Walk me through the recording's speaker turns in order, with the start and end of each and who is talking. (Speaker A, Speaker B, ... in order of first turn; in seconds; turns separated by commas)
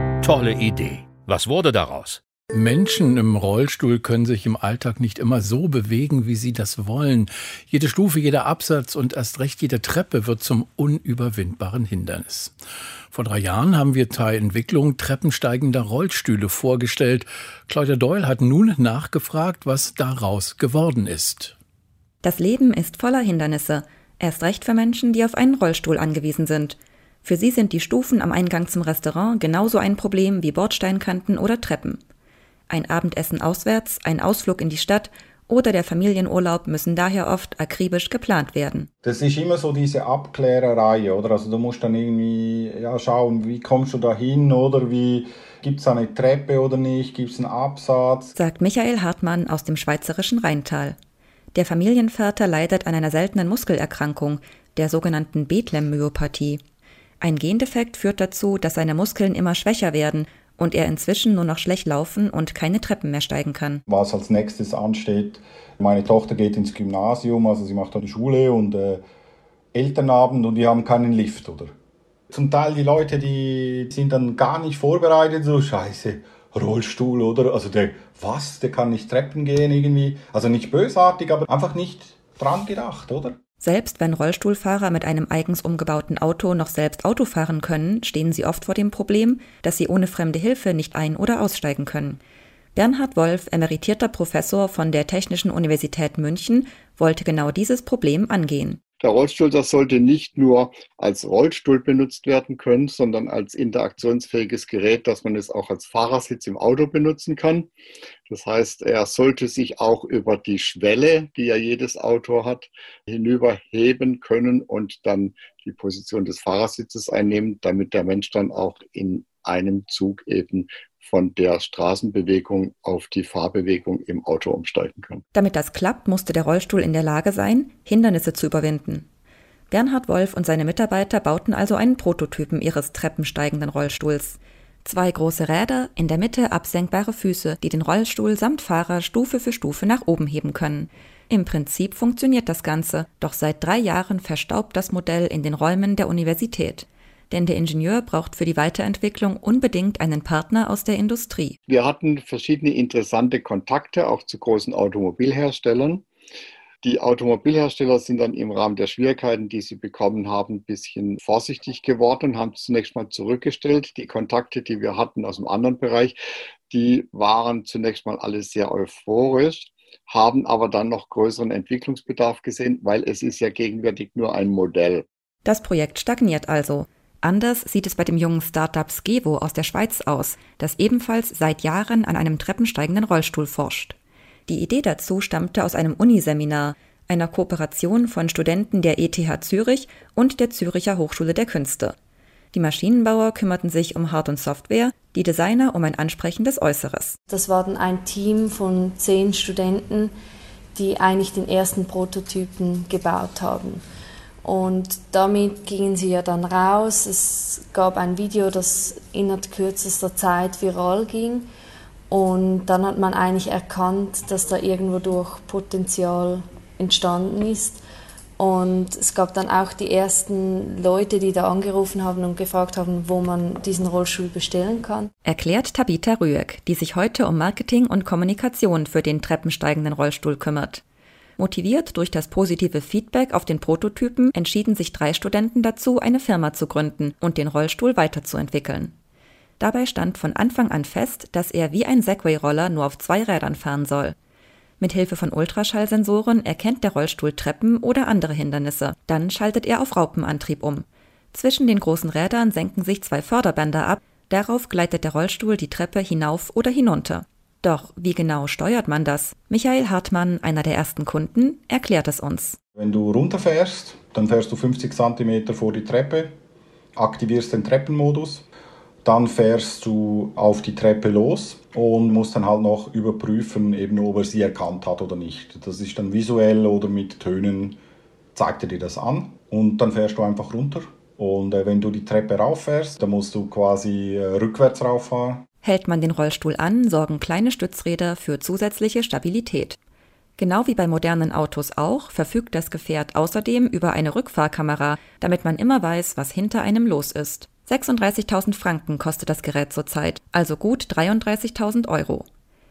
Speaker A: 0.2-2.2, Speaker B: 2.5-12.5, Speaker B: 13.1-21.6, Speaker C: 22.2-32.0, Speaker C: 32.7-38.9, Speaker D: 39.0-48.3, Speaker C: 48.4-51.0, Speaker C: 51.5-56.6, Speaker C: 57.2-63.8, Speaker D: 63.9-69.0, Speaker D: 69.7-71.7, Speaker D: 72.3-83.4, Speaker C: 83.6-92.2, Speaker C: 92.8-98.8, Speaker E: 99.0-107.7, Speaker E: 108.3-125.2, Speaker C: 125.3-129.1, Speaker C: 129.7-151.6, Speaker E: 151.7-156.1, Speaker E: 156.8-166.2, Speaker E: 166.7-175.1, Speaker C: 175.4-184.0, Speaker C: 184.5-191.9, Speaker C: 192.5-197.2, Speaker F: 197.3-200.1, Speaker F: 200.8-203.8, Speaker F: 204.4-211.5, Speaker F: 212.1-217.8, Speaker F: 218.4-225.1, Speaker C: 225.2-230.8, Speaker C: 231.4-239.0, Speaker C: 239.6-244.2, Speaker C: 244.8-262.6, Speaker D: 262.8-266.3, Speaker D: 267.0-268.4, Speaker D: 269.0-277.8, Speaker D: 278.4-285.4, Speaker C: 285.6-289.8, Speaker C: 290.4-302.3